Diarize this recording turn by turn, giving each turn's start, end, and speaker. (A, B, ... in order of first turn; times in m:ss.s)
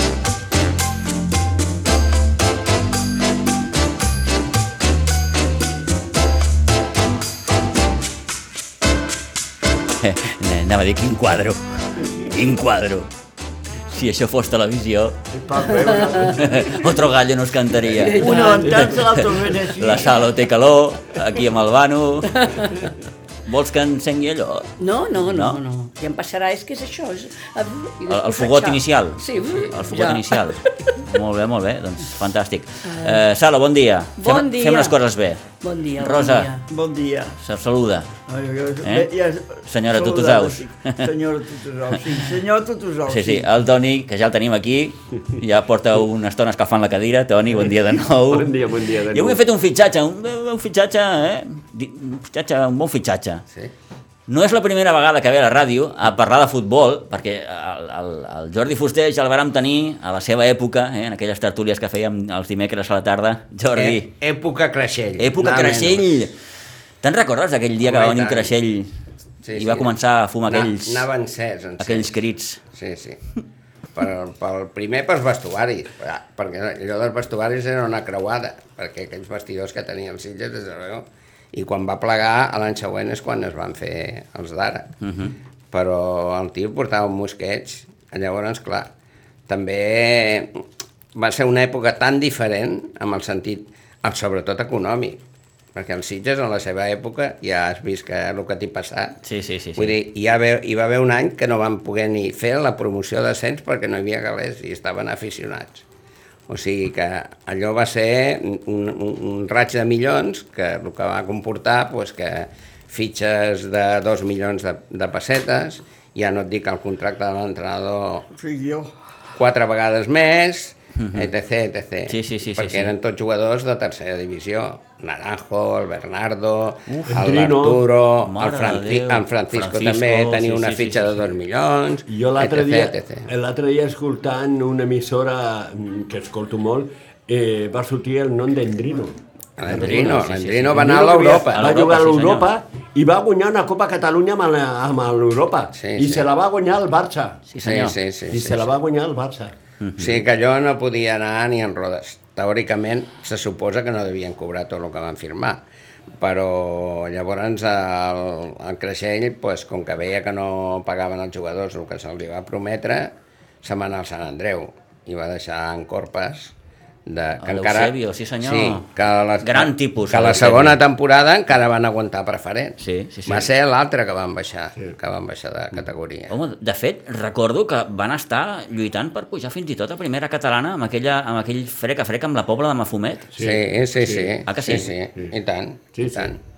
0:10.0-0:13.1 A
0:13.9-0:15.2 A
0:15.3-0:16.8 B
0:15.9-0:16.4 C
0:16.2-0:22.8 A
0:17.8-0:18.2 B
0:18.1-0:18.9 C
0:18.2-0:20.2 D
0:22.3-0:22.8 C
0:23.5-0:24.7 A
0:24.8-0:31.0 C
0:25.2-0:25.6 A
0:28.1-0:35.5 A
0:32.8-0:33.2 C
0:34.2-0:35.0 C
0:35.6-0:36.6 C
0:36.0-0:36.5 A
0:36.7-0:37.4 D
0:37.4-0:38.1 A
0:38.3-0:43.5 D
0:38.8-0:39.1 A
0:39.6-0:41.1 A
0:43.1-0:53.4 A
0:48.3-0:49.4 B
0:54.3-1:04.1 A
1:03.8-1:06.0 E
1:05.2-1:06.4 A
1:07.0-1:08.9 A
1:07.8-1:08.5 E
1:09.4-1:09.9 E
1:09.5-1:11.1 A
1:10.5-1:12.2 E
1:11.8-1:12.6 A
1:12.7-1:13.2 E
1:14.0-1:24.9 E
1:25.0-1:25.3 A
1:25.7-1:28.9 E
1:29.5-1:30.5 E
1:31.1-1:35.2 E
1:35.8-1:39.2 E
1:39.2-1:39.9 A
1:39.8-1:45.8 E
1:46.5-1:58.3 E
1:58.4-1:58.9 D
1:59.4-2:13.3 E
2:01.0-2:01.3 A
2:02.1-2:02.9 A
2:06.9-2:07.2 A
2:07.1-2:07.8 B
2:08.2-2:11.2 A
2:12.1-2:19.2 B
2:19.6-2:21.7 E
2:19.7-2:22.5 A
2:19.7-2:20.1 B
2:20.7-2:27.4 B
2:25.7-2:26.3 E
2:27.5-2:28.0 A
2:27.6-2:28.7 E
2:28.3-2:29.6 B
2:29.8-2:30.2 A
2:30.0-2:35.6 E
2:36.2-2:46.5 E
2:47.1-2:52.8 E
2:47.4-2:48.8 A
2:49.4-2:50.8 A
2:52.8-2:53.5 A
2:53.3-2:56.3 E
2:56.3-3:03.3 A
3:03.3-3:04.3 B
3:03.4-3:06.4 E
3:04.5-3:04.9 A
3:05.9-3:06.3 B